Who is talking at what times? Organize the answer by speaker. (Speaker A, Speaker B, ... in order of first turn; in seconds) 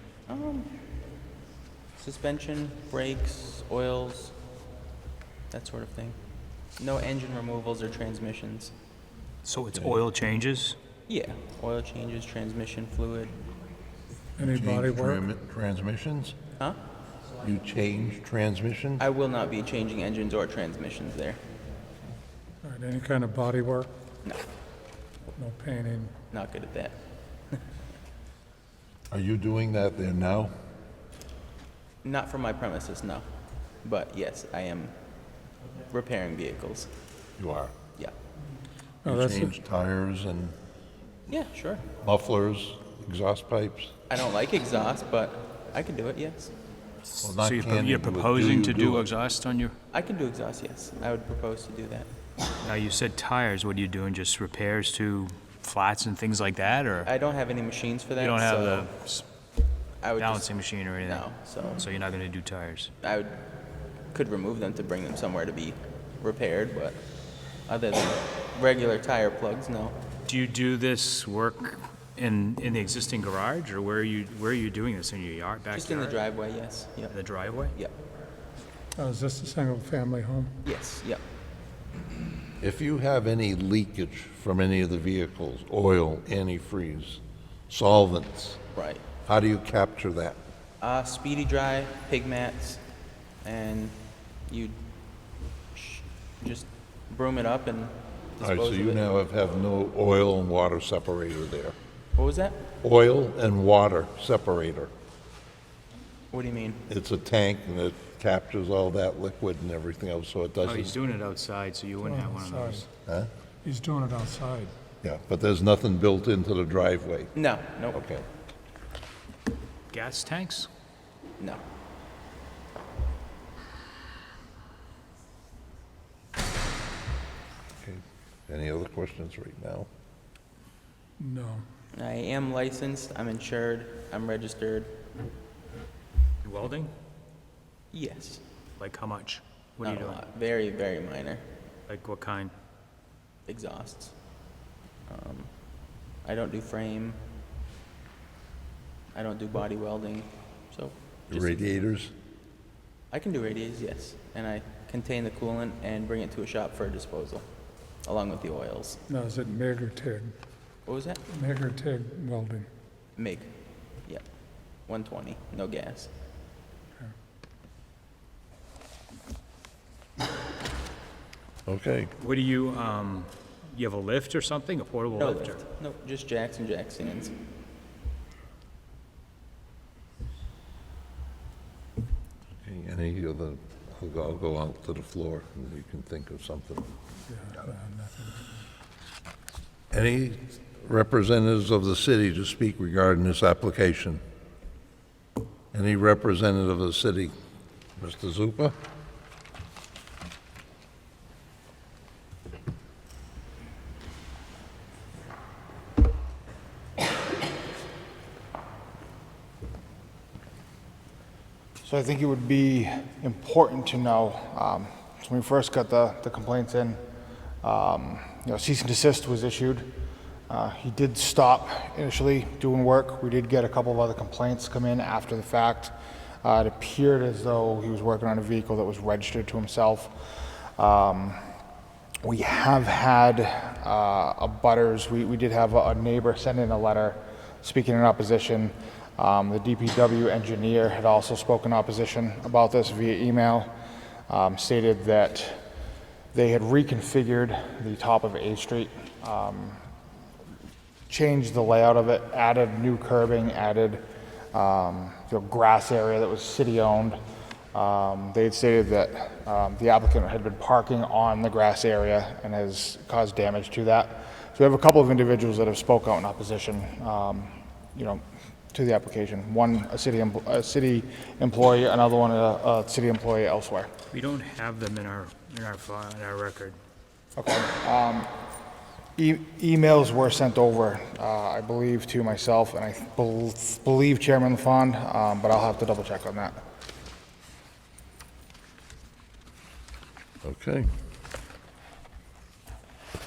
Speaker A: 0.3-0.7, 2.0-4.3, 5.5-6.2, 6.8-8.7, 11.1-13.3, 19.0-21.4, 26.3-27.0, 32.0-33.3, 33.8-34.9, 35.9-36.9, 41.3-41.9, 44.1-46.5, 49.9-52.1, 57.0-58.9, 60.0-60.5, 61.0-61.9, 63.0-63.5, 64.1-67.0, 67.7-70.0, 75.7-77.2, 77.7-77.9, 80.6-81.2, 88.8-89.0, 90.8-92.8, 93.4-94.0, 94.5-94.8, 95.7-99.2, 102.2-102.6, 106.3-106.8, 117.3-118.0, 131.9-134.9, 137.9-138.4, 139.8-141.4, 143.5-144.1, 145.1-145.5, 146.2-147.2, 149.1-151.7, 153.1-157.5, 158.1-159.0, 160.9-161.2, 163.2-163.5, 164.9-166.1, 175.2-177.3
Speaker B: 9.4-10.8, 47.1-49.8, 52.6-57.1, 58.2-59.2, 60.2-62.9, 70.3-76.2, 77.1-77.8, 110.6-112.9, 119.9-120.7, 136.4-136.9, 138.8-140.2, 141.9-142.5, 172.2-175.6, 274.1-276.8
Speaker C: 9.8-10.0, 14.5-16.4, 17.4-19.0, 29.1-30.5, 37.4-37.7, 39.0-40.6, 42.0-43.9, 47.2-49.1, 82.6-88.6, 89.2-90.4, 98.4-101.8, 102.8-104.9, 106.9-111.0, 115.0-117.3, 117.9-118.2, 127.8-129.9, 151.3-152.1, 171.7-172.1, 182.6-186.9, 189.9-194.2, 195.7-197.4, 198.0-198.8, 290.4-290.9
Speaker D: 14.4-15.2, 22.6-23.9, 25.4-26.1, 39.0-39.5, 79.0-80.5, 112.0-112.8, 113.6-114.7, 131.2-131.6, 159.1-160.3, 161.3-162.7, 187.3-188.5
Speaker E: 211.8-217.0, 217.6-219.9, 220.5-231.4, 232.2-243.7, 244.3-245.6, 246.3-249.8, 251.1-254.0, 254.5-257.2, 257.7-268.2, 268.7-273.9, 277.4-278.3, 279.2-286.6